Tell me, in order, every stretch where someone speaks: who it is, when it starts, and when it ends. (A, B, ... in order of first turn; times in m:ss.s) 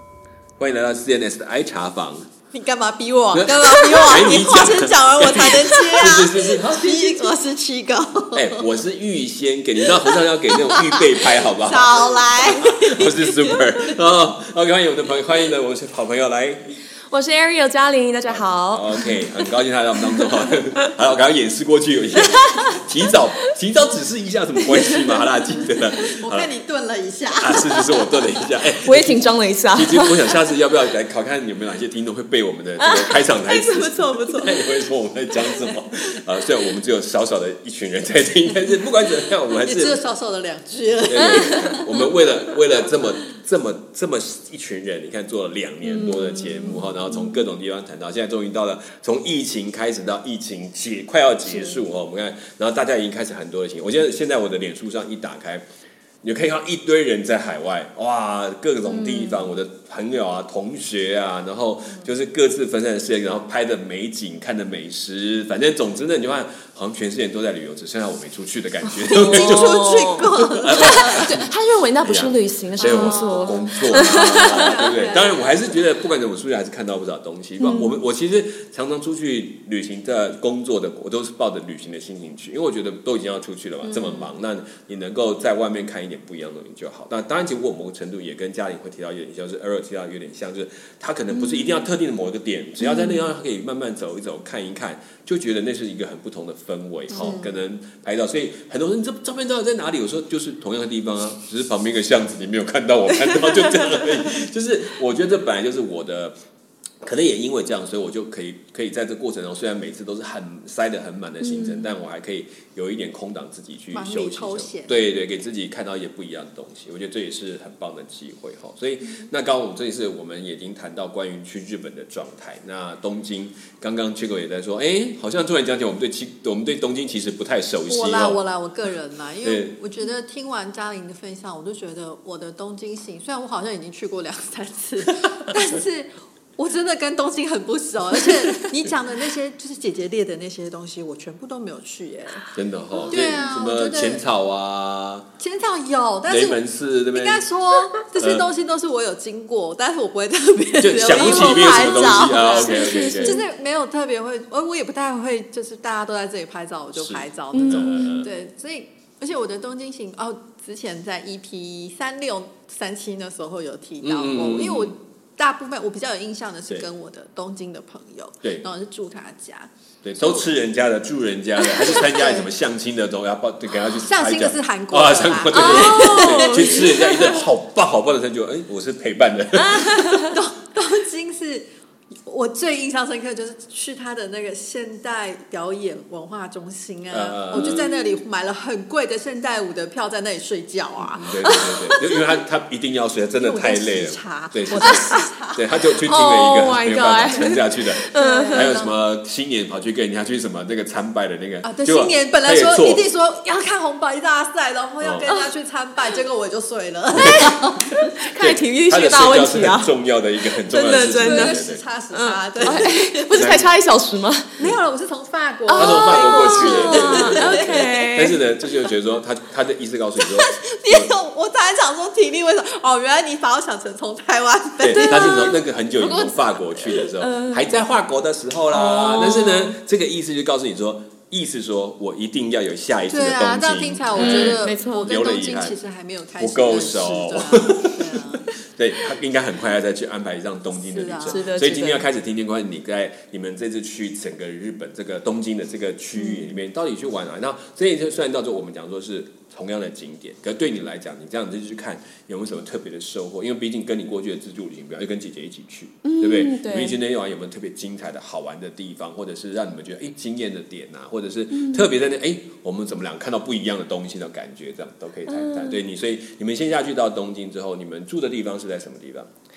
0:00.6-0:02.3 A
0:02.5-0:08.8 B
0:03.3-0:07.3 A
0:08.3-0:16.8 A
0:09.9-0:13.9 B
0:17.1-0:19.5 C
0:18.3-0:26.5 A
0:22.2-0:22.8 C
0:24.8-0:25.2 C
0:26.0-0:28.6 B
0:27.4-0:40.0 A
0:28.8-0:30.3 C
0:32.8-0:34.7 C
0:39.5-0:42.1 B
0:41.0-0:55.6 A
0:41.2-0:41.6 C
0:45.8-0:47.4 C
0:56.2-1:11.5 A
0:59.0-0:59.4 C
1:09.0-1:14.9 C
1:09.1-1:11.3 B
1:12.0-1:46.3 A
1:12.8-1:15.8 B
1:17.6-1:18.0 C
1:23.8-1:24.3 B
1:31.3-1:31.8 C
1:32.8-1:33.3 C
1:37.1-1:37.4 C
1:37.1-1:37.6 B
1:47.0-2:08.4 A
1:51.4-1:51.9 C
1:53.9-1:55.0 B
2:07.9-2:22.5 B
2:09.4-2:09.7 A
2:22.5-2:25.3 A
2:23.0-2:24.2 B
2:25.4-2:50.5 B
2:26.3-2:27.4 A
2:28.2-2:28.4 A
2:30.8-2:33.4 A
2:31.2-2:33.4 C
2:36.9-2:38.3 A
2:37.5-2:38.2 C
2:44.0-2:44.9 A
2:50.0-3:00.3 A
2:51.8-2:52.4 B
2:53.8-2:57.2 B
2:55.5-2:57.4 C
2:59.5-3:00.4 C
3:00.3-3:01.7 B
3:02.2-3:11.6 B
3:07.1-3:07.9 A
3:07.5-3:08.2 C
3:11.1-3:23.0 A
3:11.4-3:12.1 C
3:13.4-3:15.6 B
3:14.7-3:15.3 C
3:16.0-3:18.7 C
3:18.1-3:19.0 B
3:21.6-3:28.0 B
3:25.0-3:25.3 A
3:27.1-3:27.5 A
3:27.2-3:29.9 C
3:28.3-3:31.8 A
3:30.7-3:34.6 C
3:30.8-3:33.6 B
3:33.4-3:33.6 A
3:34.6-3:38.9 B
3:35.7-3:41.1 A
3:35.7-3:38.4 C
3:40.2-3:47.1 B
3:44.8-3:55.8 A
3:44.9-3:45.6 C
3:47.1-3:47.7 C
3:48.7-3:49.8 C
3:53.1-3:58.5 B
3:54.1-3:55.1 C
3:56.4-4:29.3 A
4:00.8-4:01.5 B
4:01.3-4:02.0 C
4:06.2-4:06.5 C
4:16.0-4:17.0 C
4:21.6-4:21.8 C
4:25.3-4:25.8 C